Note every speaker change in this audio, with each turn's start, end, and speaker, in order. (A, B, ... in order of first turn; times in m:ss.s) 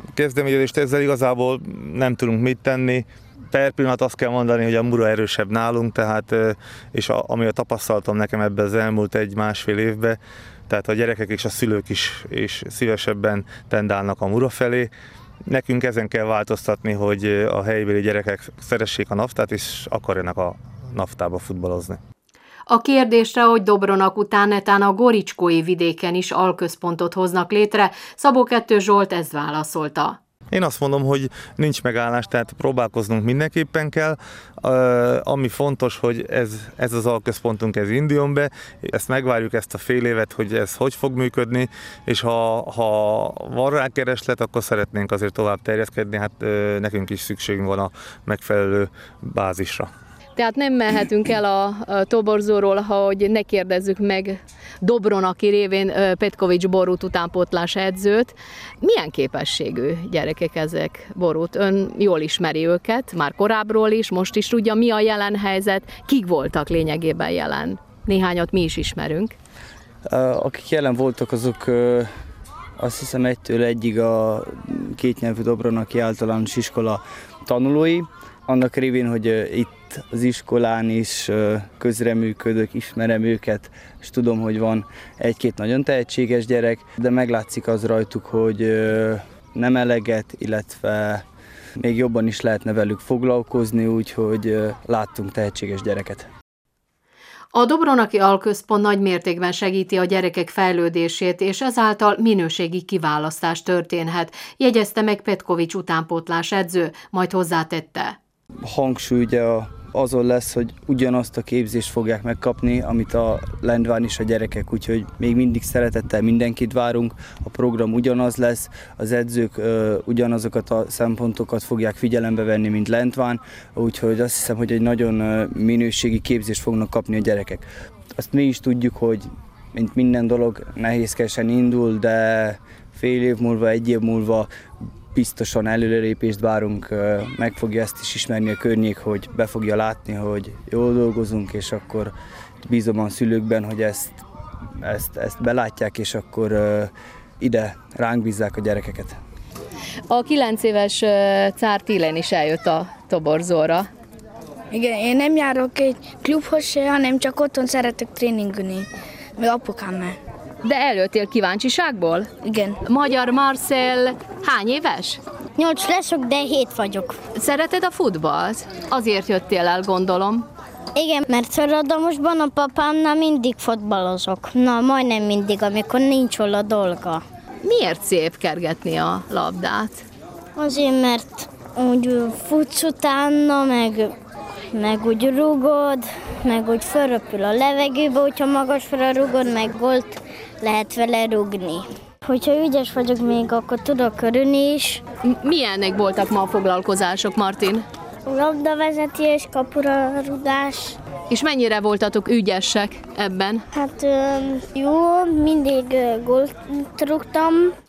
0:00.2-0:14.9 A
0:15.5-0:22.0 A
0:22.7-0:30.2 B
0:30.5-0:49.9 A
0:50.4-1:09.3 B
1:10.1-1:12.1 C
1:12.8-1:31.2 C
1:31.8-1:36.3 C
1:37.5-1:48.2 B
1:48.6-2:14.5 C
2:15.1-2:24.2 C
2:24.8-2:29.1 C
2:30.1-2:33.9 B
2:34.7-2:40.2 D
2:40.6-2:42.3 B
2:42.4-2:42.8 D
2:42.8-2:45.2 B
2:45.6-2:47.2 E
2:47.3-2:50.4 B
2:50.9-2:57.2 E
2:57.6-3:00.0 B
3:00.6-3:04.1 E
3:04.7-3:15.0 E
3:15.2-3:17.8 B
3:18.2-3:21.0 E
3:21.3-3:23.6 B
3:23.7-3:27.7 E